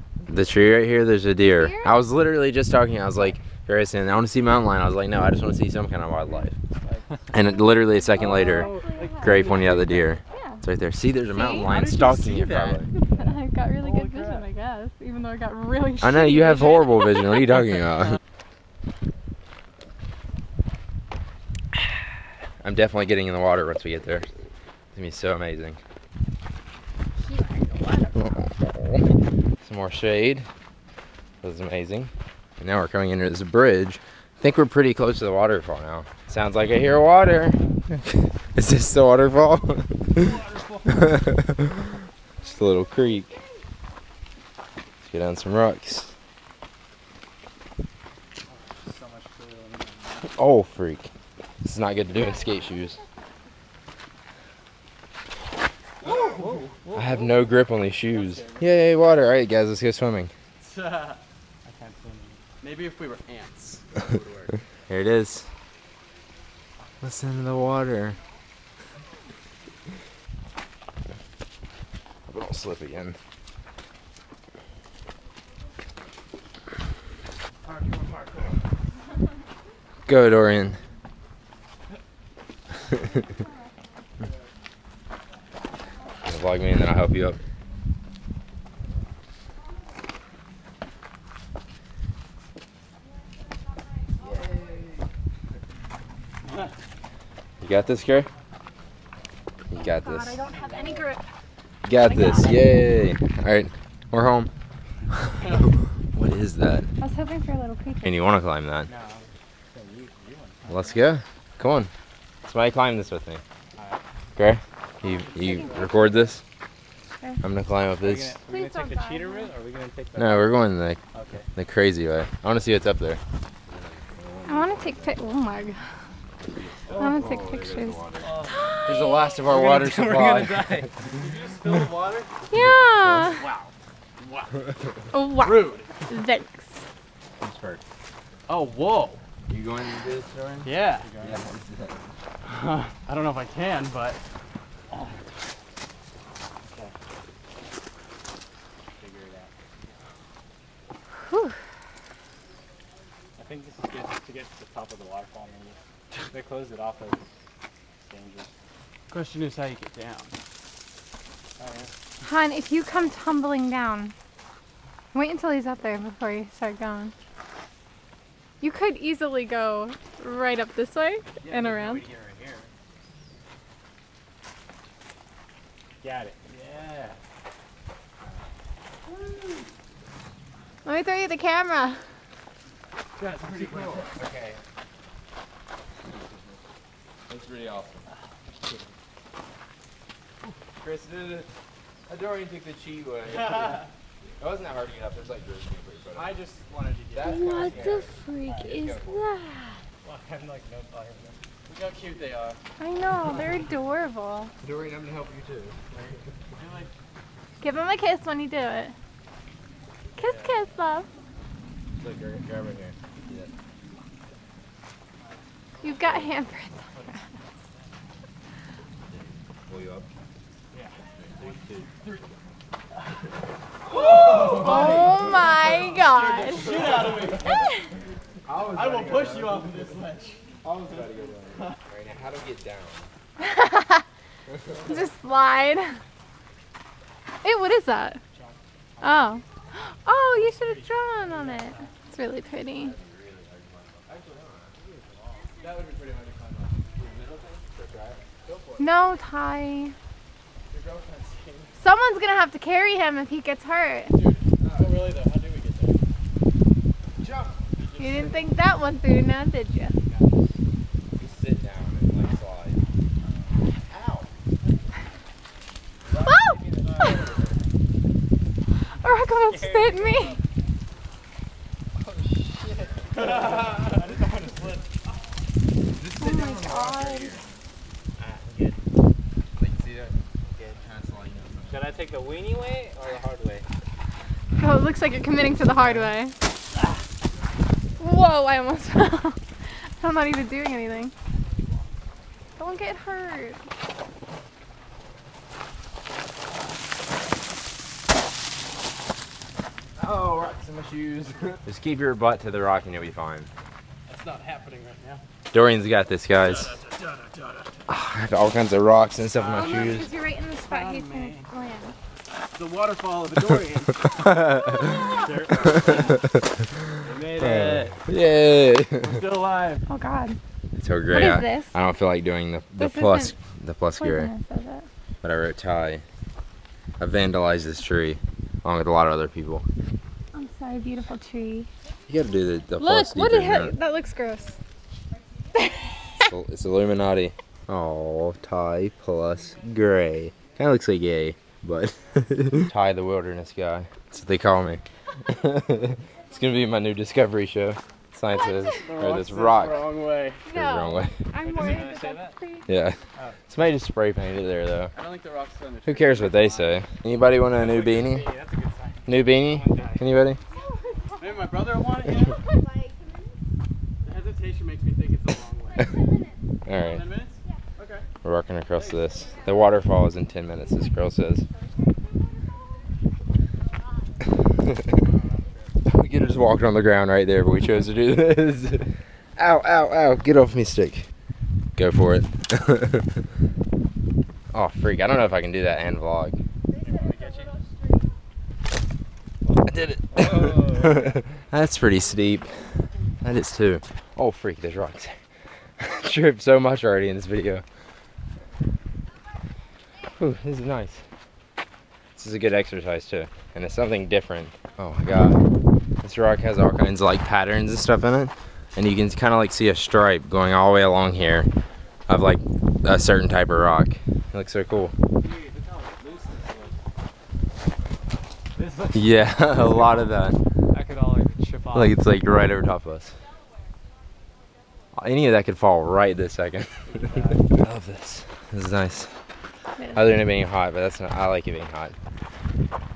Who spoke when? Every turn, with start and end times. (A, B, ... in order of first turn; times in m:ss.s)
0:00.3-0:06.6 A
0:01.4-0:02.0 B
0:06.8-0:07.2 C
0:07.3-0:12.9 A
0:07.4-0:09.6 B
0:08.2-0:10.1 C
0:09.3-0:09.8 D
0:10.3-0:10.6 B
0:11.3-0:11.7 B
0:11.5-0:12.8 D
0:12.9-0:17.4 B
0:13.1-0:13.4 C
0:13.8-0:14.4 D
0:16.0-0:18.2 A
0:22.6-0:24.3 A
0:24.9-0:25.8 A
0:27.2-0:28.4 B
0:28.1-0:30.5 A
0:31.4-0:43.4 A
0:40.2-0:41.2 C
0:42.4-0:43.6 B
0:45.0-0:46.1 A
0:48.5-0:50.4 C
0:50.3-0:51.1 A
0:51.6-0:53.0 A
0:52.1-0:53.0 B
0:56.0-0:56.8 C
0:56.0-0:57.5 D
0:56.9-1:00.3 A
0:58.0-0:58.8 D
1:00.6-1:01.2 D
1:01.6-1:02.4 C
1:02.6-1:04.6 D
1:04.9-1:05.5 A
1:07.0-1:08.2 A
1:12.3-1:13.2 A
1:20.1-1:20.8 A
1:22.9-1:23.7 B
1:26.2-1:27.4 A
1:37.6-1:38.3 A
1:39.7-1:40.4 A
1:39.8-1:41.2 B
1:41.8-1:44.5 A
1:42.0-1:42.7 B
1:45.1-1:46.9 A
1:47.0-1:48.2 B
1:48.0-1:48.9 A
1:48.9-1:51.1 C
1:50.7-1:51.9 A
1:52.4-1:53.4 A
1:53.8-1:54.0 C
1:54.4-1:56.4 A
1:55.0-1:55.8 B
1:55.3-1:56.3 C
1:57.4-1:58.4 A
1:58.0-2:00.5 C
1:58.5-1:59.5 B
2:00.2-2:01.0 A
2:01.2-2:01.4 D
2:01.2-2:01.4 C
2:01.6-2:05.2 A
2:04.5-2:05.8 B
2:06.5-2:08.3 A
2:06.9-2:09.4 B
2:08.2-2:08.7 C
2:08.8-2:11.1 A
2:09.4-2:11.0 C
2:11.2-2:12.3 D
2:12.5-2:13.4 B
2:12.5-2:13.3 A
2:13.4-2:13.7 D
2:14.2-2:14.5 D
2:15.1-2:16.8 B
2:15.3-2:15.9 D
2:17.4-2:17.8 A
2:18.5-2:19.2 D
2:19.5-2:22.1 A
2:20.6-2:21.1 D
2:21.0-2:21.4 C
2:22.4-2:24.2 D
2:29.0-2:29.5 C
2:31.2-2:31.6 B
2:33.4-2:37.3 C
2:38.0-2:38.5 C
2:39.1-2:40.3 D
2:41.6-2:41.9 C
2:42.2-2:44.1 B
2:45.1-2:47.1 B
2:48.6-2:52.0 B
2:51.5-2:52.6 A
2:51.5-2:52.7 C
2:56.0-2:57.2 C
3:00.8-3:02.0 B
3:03.2-3:04.1 D
3:03.4-3:04.6 A
3:06.0-3:06.6 A
3:07.3-3:08.1 A
3:10.8-3:11.5 A
3:12.1-3:13.8 A
3:13.4-3:13.9 D
3:14.4-3:16.4 A
3:16.1-3:17.9 D
3:17.1-3:19.2 A
3:17.2-3:19.8 B
3:18.4-3:18.7 C
3:20.0-3:21.4 C
3:21.7-3:22.6 D
3:22.8-3:24.5 B
3:24.6-3:25.8 A
3:25.9-3:26.9 D
3:27.6-3:28.9 B
3:30.2-3:31.1 B
3:32.0-3:33.5 A
3:35.8-3:37.4 B
3:36.0-3:36.3 A
3:39.0-3:40.1 A
3:41.4-3:41.9 A
3:41.4-3:42.3 D
3:43.8-3:45.2 A
3:44.0-3:45.1 D
3:44.2-3:46.7 B
3:46.2-3:47.6 D
3:47.5-3:47.9 B
3:48.4-3:49.7 A
3:48.7-3:50.4 D
3:50.6-3:53.1 A
3:53.4-3:54.0 B
3:54.5-3:55.0 A
3:54.8-3:56.0 B
3:57.4-3:58.2 B
3:58.3-3:59.4 C
3:59.0-4:02.9 B
4:00.3-4:01.9 C
4:02.8-4:04.8 A
4:04.7-4:05.5 C
4:05.6-4:06.8 D
4:07.0-4:07.7 C
4:07.0-4:08.2 A
4:08.4-4:08.8 D
4:08.8-4:09.9 B
4:10.7-4:11.7 D
4:11.8-4:14.2 B
4:14.1-4:16.0 D
4:14.6-4:15.0 A
4:17.2-4:17.5 A
4:17.8-4:18.6 D
4:18.0-4:20.0 B
4:20.0-4:20.5 C
4:21.2-4:22.8 A
4:23.8-4:24.3 A
4:26.1-4:27.5 C
4:26.2-4:27.3 B
4:28.9-4:30.4 B
4:29.4-4:30.4 C
4:32.0-4:34.9 C
4:36.0-4:37.4 A
4:36.2-4:37.3 B
4:38.2-4:38.8 C
4:39.6-4:41.9 A
4:41.7-4:43.7 C
4:44.6-4:46.3 B
4:48.0-4:49.4 B
4:50.0-4:51.1 B
4:52.6-4:53.6 B
5:00.0-5:03.5 A
5:04.1-5:05.2 D
5:05.5-5:06.8 A
5:06.4-5:07.8 D
5:07.9-5:10.1 A
5:09.3-5:11.5 D
5:09.5-5:12.0 B
5:12.6-5:14.1 D
5:14.1-5:19.2 A
5:14.6-5:15.3 B
5:15.2-5:16.3 C
5:17.0-5:18.0 C
5:19.0-5:19.8 D
5:19.9-5:20.4 B
5:20.7-5:24.3 A
5:21.1-5:21.7 B
5:22.8-5:23.3 B
5:24.0-5:24.9 B
5:25.2-5:26.0 A
5:27.0-5:29.7 A
5:30.3-5:31.7 B
5:32.1-5:33.7 A
5:32.8-5:34.6 B
5:35.6-5:36.3 B
5:36.2-5:49.8 A
5:48.3-5:48.9 B
5:48.8-5:50.4 D
5:50.4-5:52.7 B
5:50.5-5:51.2 A
5:51.4-5:52.3 C
5:52.7-5:53.0 A
5:53.5-5:54.9 A
5:54.9-5:56.8 D
5:55.8-5:58.3 A
5:57.5-6:00.1 C
5:59.1-6:00.4 A
6:00.5-6:03.4 B
6:01.2-6:02.4 D
6:04.0-6:05.9 D
6:05.8-6:06.5 B
6:06.7-6:07.0 A
6:06.8-6:08.1 D
6:08.2-6:11.4 A
6:08.8-6:09.1 D
6:09.1-6:09.8 B
6:11.5-6:12.9 B
6:13.6-6:14.3 B
6:14.6-6:15.0 A
6:15.0-6:15.4 D
6:15.8-6:21.1 A
6:21.8-6:23.1 A
6:24.5-6:26.4 A
6:26.7-6:28.2 B
6:26.8-6:27.5 C
6:29.6-6:35.2 A
6:30.1-6:31.2 C
6:35.8-6:37.6 A
6:40.2-6:41.0 A
6:42.2-6:45.4 A
6:46.0-6:51.5 A
6:52.1-6:54.9 A
6:55.4-6:56.8 C
6:58.5-7:00.2 C
6:58.9-7:00.4 A
7:00.7-7:02.0 C
7:01.7-7:03.2 A
7:04.9-7:09.2 A
7:06.9-7:07.5 C
7:09.8-7:10.0 B
7:09.9-7:12.0 A